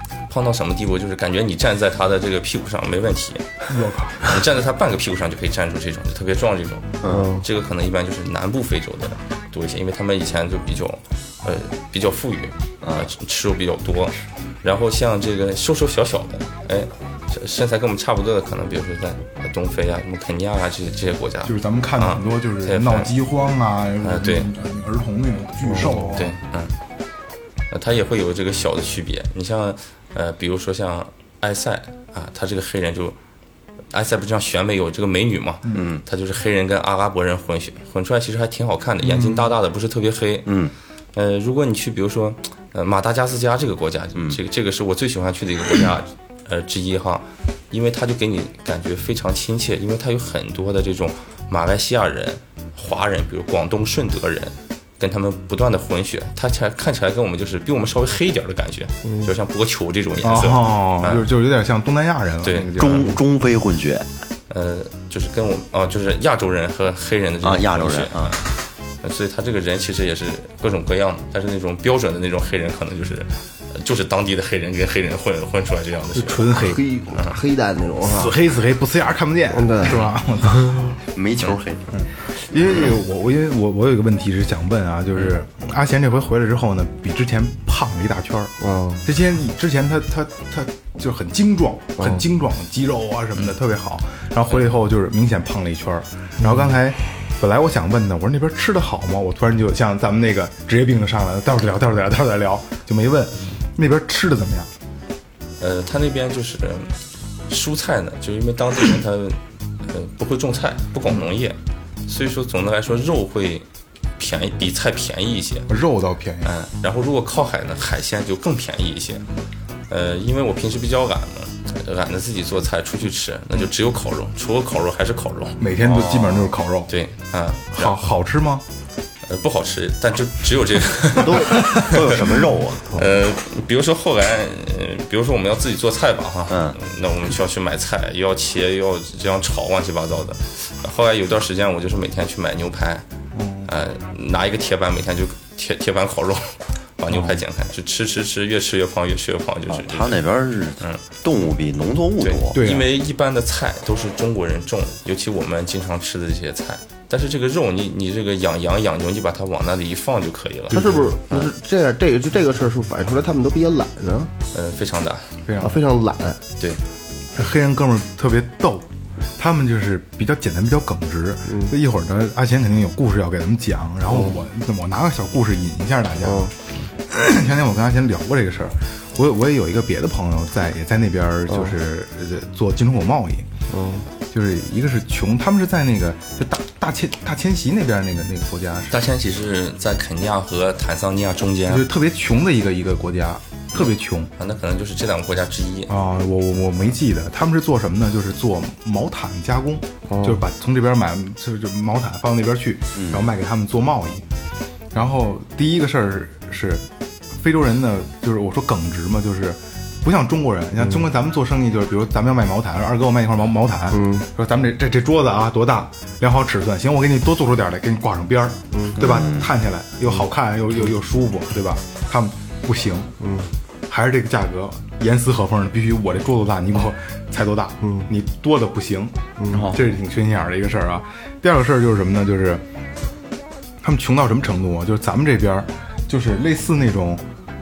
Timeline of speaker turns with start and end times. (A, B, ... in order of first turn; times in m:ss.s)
0:00.3-0:03.4 A
0:03.7-0:04.3 B
0:04.2-0:23.1 A
0:07.0-0:07.3 C
0:07.1-0:07.4 D
0:12.8-0:13.1 C
0:21.4-0:26.3 B
0:24.0-0:24.5 A
0:26.1-0:26.7 A
0:27.7-0:33.1 A
0:33.9-0:40.5 A
0:35.7-0:36.0 C
0:39.0-0:39.5 B
0:40.4-0:40.7 C
0:41.1-1:01.2 A
1:00.2-1:03.2 B
1:02.4-1:02.7 A
1:02.7-1:04.0 C
1:04.5-1:08.4 A
1:07.4-1:08.4 C
1:09.0-1:17.3 A
1:16.1-1:16.8 B
1:16.5-1:18.3 D
1:18.0-1:21.0 B
1:19.5-1:20.0 D
1:21.1-1:21.9 C
1:21.9-1:44.7 B
1:28.6-1:29.0 D
1:45.6-1:46.9 A
1:47.5-1:53.6 A
1:54.2-1:55.7 A
1:55.7-1:56.5 B
1:56.4-1:59.2 A
1:59.9-2:05.7 A
2:05.6-2:06.9 B
2:05.9-2:06.5 C
2:06.9-2:08.0 A
2:07.7-2:08.6 B
2:09.2-2:11.9 A
2:11.2-2:11.8 D
2:11.6-2:13.0 C
2:12.9-2:23.0 A
2:16.5-2:16.8 C
2:23.3-2:23.7 B
2:23.6-2:30.2 A
2:27.1-2:27.4 B
2:29.7-2:32.6 C
2:32.2-2:41.5 A
2:32.5-2:32.9 B
2:40.7-2:44.3 D
2:40.7-2:41.1 B
2:44.5-2:45.3 A
2:45.4-2:45.8 B
2:45.6-2:46.4 D
2:47.3-2:56.5 B
2:51.5-2:51.7 D
2:54.1-2:54.4 D
2:56.2-2:56.5 D
2:57.1-3:03.5 B
3:03.7-3:04.0 D
3:04.3-3:09.0 B
3:08.9-3:11.9 A
3:11.7-3:14.3 B
3:14.4-3:15.9 A
3:15.9-3:24.2 B
3:20.1-3:20.4 D
3:22.9-3:23.2 C
3:24.9-3:43.1 B
3:33.9-3:34.2 D
3:38.7-3:39.1 D
3:39.0-3:39.5 C
3:43.2-3:43.5 D
3:43.9-3:52.6 B
3:49.4-3:49.7 D
3:49.5-3:49.8 C
3:53.8-3:57.2 B